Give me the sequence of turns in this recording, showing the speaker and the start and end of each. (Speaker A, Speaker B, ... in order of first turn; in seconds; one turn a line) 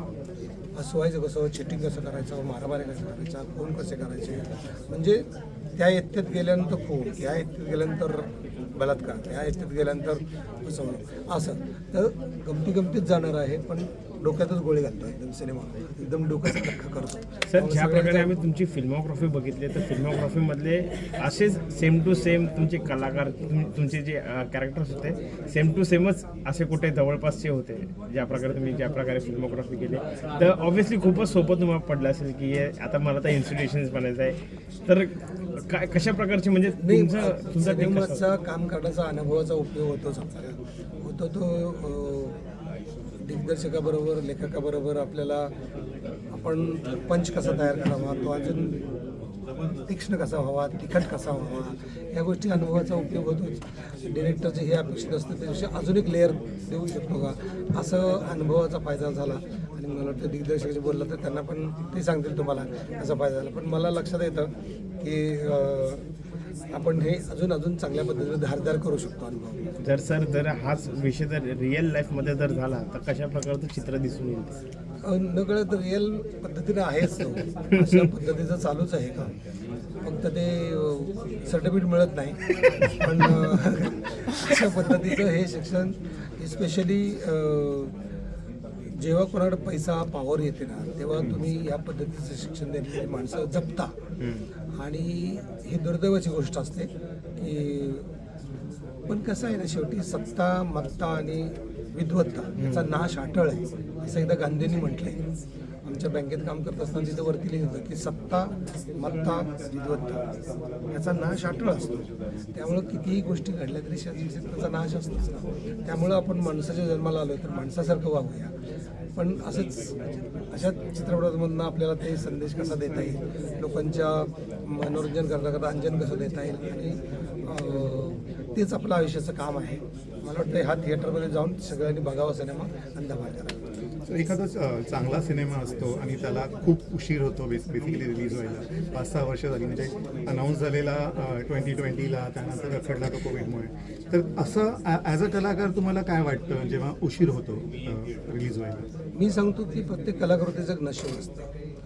Speaker A: 0.7-5.2
Speaker A: 5.8-18.3
Speaker B: 17.5-38.2
Speaker A: 36.8-42.4
Speaker A: 43.2-45.5
Speaker A: 46.3-48.8
Speaker A: 49.9-66.0
Speaker A: 66.7-69.6
Speaker B: 69.8-74.5
Speaker A: 75.0-79.3
Speaker A: 80.0-87.9
Speaker A: 89.0-93.9
Speaker B: 94.2-94.5
Speaker A: 94.8-98.1
Speaker A: 99.1-105.2
Speaker B: 102.6-102.9
Speaker A: 105.8-110.2
Speaker A: 110.9-111.9
Speaker A: 112.5-118.5
Speaker A: 119.2-119.9
Speaker A: 120.5-133.5
Speaker C: 134.1-148.9
Speaker A: 149.1-151.5